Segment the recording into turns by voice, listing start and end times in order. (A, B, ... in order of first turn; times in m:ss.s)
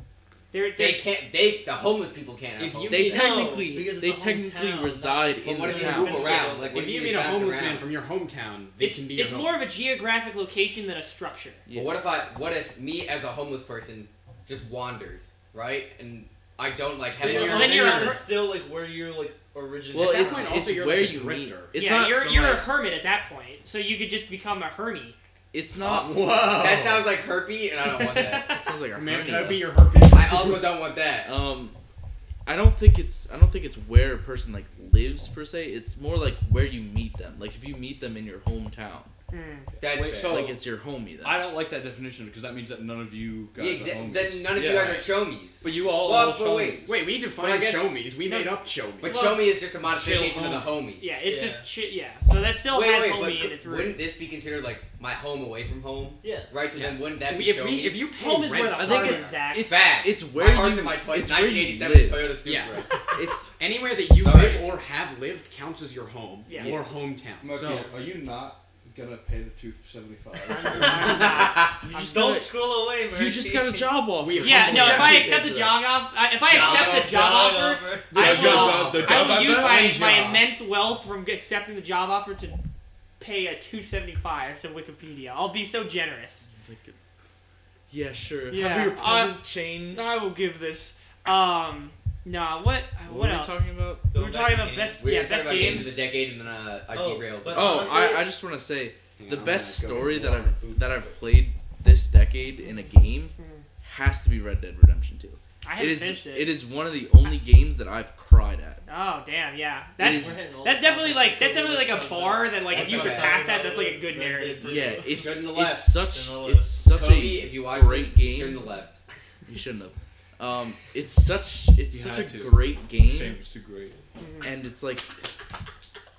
0:00.5-0:01.1 A
0:00.8-0:03.3 B
0:02.6-0:03.3 C
0:02.9-0:06.5 D
0:03.0-0:06.7 E
0:05.4-0:07.9 B
0:06.6-0:09.6 C
0:08.8-0:11.6 A
0:11.7-0:12.0 D
0:11.7-0:18.2 B
0:17.2-0:18.2 C
0:17.2-0:20.6 E
0:17.3-0:18.2 A
0:19.9-0:22.6 D
0:20.0-0:21.7 C
0:21.8-0:25.2 A
0:25.5-0:26.4 D
0:25.8-0:28.6 B
0:25.8-0:27.1 C
0:28.0-0:28.6 A
0:28.5-0:29.8 D
0:28.9-0:30.7 C
0:30.1-0:31.3 B
0:31.2-0:31.8 D
0:32.4-0:39.1 D
0:39.3-0:39.7 A
0:39.8-0:40.6 F
0:39.8-0:40.5 B
0:40.2-0:41.5 D
0:41.2-0:46.9 F
0:43.6-0:48.0 B
0:46.8-0:49.3 C
0:48.2-0:49.4 A
0:49.0-0:51.0 B
0:49.8-0:50.8 F
0:51.0-0:54.0 A
0:51.2-0:51.7 E
0:52.7-0:58.0 B
0:56.2-0:56.5 E
0:56.7-0:59.4 C
0:58.2-0:59.8 A
0:58.7-1:02.4 D
0:59.6-1:03.0 B
1:02.4-1:02.9 C
1:03.1-1:03.6 D
1:03.6-1:07.9 C
1:04.1-1:04.7 B
1:06.5-1:06.8 A
1:07.4-1:11.2 F
1:10.5-1:12.1 A
1:10.8-1:14.0 E
1:11.4-1:11.7 B
1:11.6-1:15.8 D
1:14.2-1:15.4 C
1:14.4-1:22.6 A
1:16.5-1:18.4 E
1:18.1-1:19.9 F
1:18.1-1:20.4 C
1:23.2-1:26.5 A
1:26.5-1:27.0 D
1:27.9-1:30.2 D
1:28.5-1:36.0 A
1:33.0-1:34.1 D
1:34.1-1:35.1 E
1:35.0-1:38.1 B
1:35.5-1:36.1 D
1:36.9-1:38.3 E
1:37.5-1:48.8 D
1:39.2-1:41.0 C
1:43.4-1:43.6 A
1:45.6-1:46.6 A
1:48.9-1:55.0 A
1:50.0-1:50.5 D
1:50.0-1:55.2 E
1:52.7-1:53.4 B
1:54.6-1:58.7 D
1:55.1-1:55.9 B
1:56.1-1:56.8 E
1:56.9-1:59.0 B
1:59.5-2:03.4 D
2:01.9-2:04.0 F
2:04.2-2:04.5 A
2:04.4-2:05.2 D